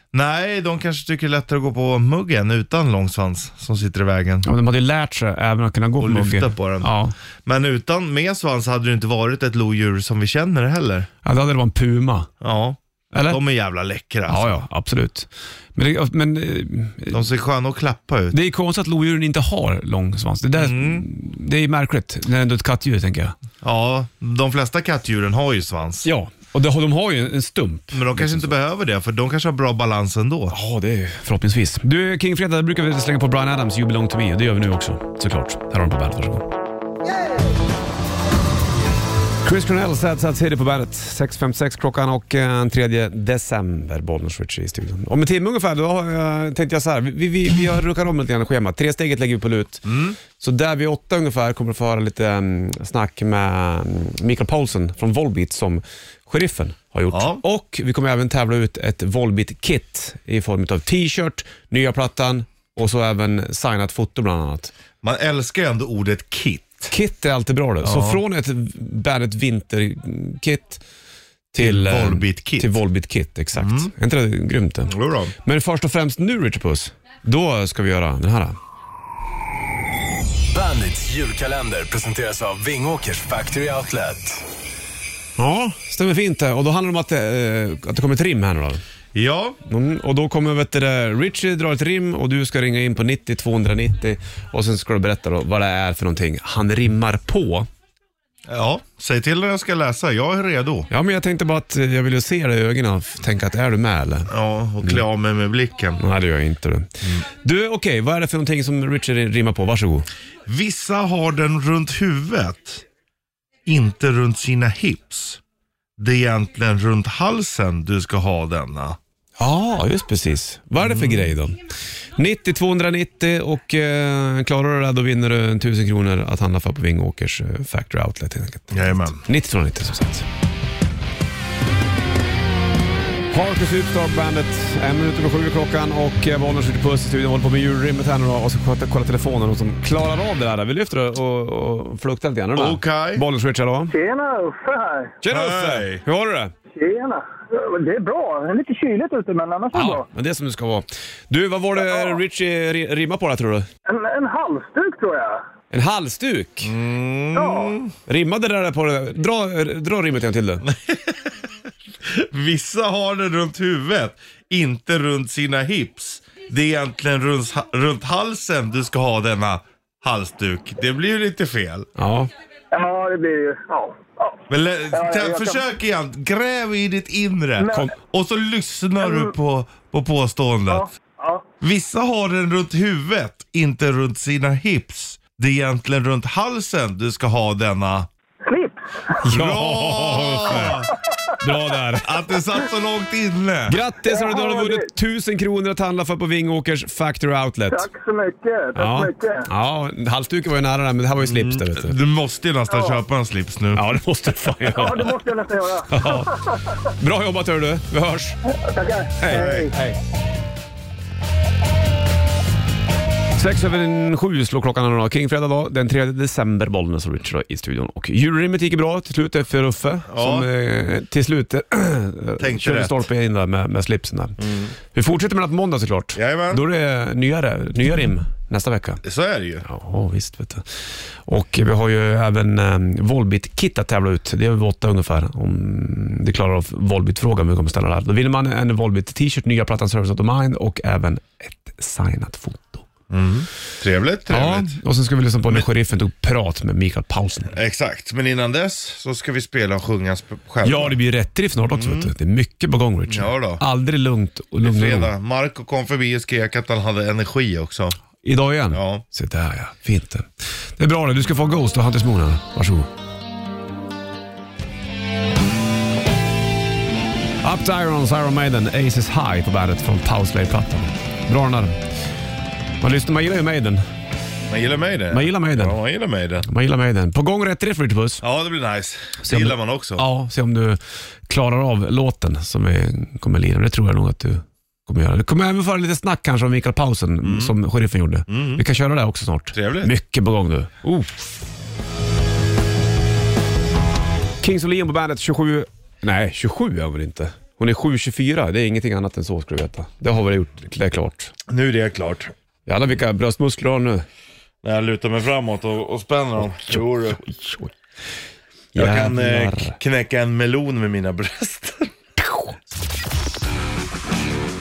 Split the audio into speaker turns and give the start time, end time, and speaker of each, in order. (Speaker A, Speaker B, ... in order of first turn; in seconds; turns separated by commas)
Speaker A: 0.1-4.5, Speaker B: 4.4-7.1, Speaker A: 6.0-6.9, Speaker A: 7.5-11.1, Speaker B: 11.2-12.3, Speaker A: 12.4-14.6, Speaker B: 13.1-13.4, Speaker B: 14.3-17.2, Speaker A: 17.1-18.4, Speaker B: 18.3-23.3, Speaker A: 20.6-21.1, Speaker A: 23.6-26.1, Speaker B: 26.0-28.5, Speaker A: 27.9-30.5, Speaker B: 30.5-36.5, Speaker B: 39.4-64.7, Speaker A: 49.8-50.2, Speaker A: 57.1-57.4, Speaker A: 65.0-66.9, Speaker B: 66.9-70.8, Speaker A: 67.8-68.2, Speaker B: 71.5-78.6, Speaker A: 71.6-72.8, Speaker A: 73.5-73.9, Speaker A: 74.9-75.3, Speaker C: 80.5-84.4, Speaker B: 85.4-88.8, Speaker A: 89.1-89.6, Speaker B: 89.6-97.7, Speaker A: 98.5-100.9, Speaker B: 100.9-104.3, Speaker A: 104.3-106.0, Speaker B: 106.0-110.1, Speaker A: 110.5-112.8, Speaker A: 113.7-115.4, Speaker A: 116.0-119.0, Speaker B: 119.4-121.6, Speaker A: 120.8-121.3, Speaker B: 122.1-130.2, Speaker A: 128.7-129.2, Speaker B: 133.3-143.9, Speaker A: 142.6-143.2, Speaker D: 143.9-145.2, Speaker B: 145.2-146.5, Speaker A: 145.3-146.0, Speaker D: 146.7-150.1, Speaker B: 149.7-153.7, Speaker D: 151.8-152.2, Speaker D: 153.8-155.4, Speaker B: 155.7-156.7, Speaker A: 156.6-157.9, Speaker D: 157.3-157.8, Speaker B: 158.1-160.6, Speaker A: 160.6-161.3, Speaker A: 162.0-171.9, Speaker B: 171.9-172.3, Speaker D: 172.7-174.4, Speaker A: 174.5-180.9, Speaker D: 174.9-175.6, Speaker D: 177.6-177.9, Speaker D: 179.0-179.3, Speaker D: 180.7-181.4, Speaker A: 181.6-188.1, Speaker D: 188.4-189.2, Speaker B: 189.2-190.8, Speaker A: 189.2-190.9, Speaker B: 191.4-192.2, Speaker A: 192.0-193.8, Speaker B: 193.7-197.9, Speaker D: 194.0-194.9, Speaker D: 197.7-199.5, Speaker B: 198.8-201.9, Speaker A: 201.2-203.8, Speaker D: 202.7-203.0, Speaker B: 203.7-205.2, Speaker D: 204.6-206.5, Speaker B: 205.9-206.3, Speaker B: 206.9-208.4, Speaker D: 208.6-209.7, Speaker B: 209.2-210.0, Speaker A: 209.3-209.7, Speaker B: 213.4-224.4, Speaker A: 220.1-220.5, Speaker A: 222.4-223.1, Speaker A: 224.4-224.8, Speaker B: 224.9-229.0, Speaker A: 226.1-226.6, Speaker A: 229.0-229.6, Speaker B: 229.6-242.8, Speaker A: 243.1-244.8, Speaker B: 244.3-247.5, Speaker A: 247.5-251.0, Speaker B: 250.6-255.1, Speaker A: 251.7-252.1, Speaker A: 253.1-253.6, Speaker A: 254.6-258.0, Speaker B: 258.2-262.9, Speaker A: 258.7-259.0, Speaker B: 267.4-271.9, Speaker B: 272.8-273.8, Speaker A: 274.5-276.5, Speaker B: 275.1-275.8, Speaker B: 276.5-278.2, Speaker A: 278.2-280.0, Speaker B: 279.2-291.3, Speaker A: 287.2-287.5, Speaker A: 288.3-288.6, Speaker A: 289.5-289.9, Speaker B: 294.4-301.3, Speaker A: 301.5-302.3, Speaker B: 302.7-304.0, Speaker A: 304.6-307.2, Speaker B: 306.7-307.7, Speaker B: 308.8-309.8, Speaker A: 308.8-311.9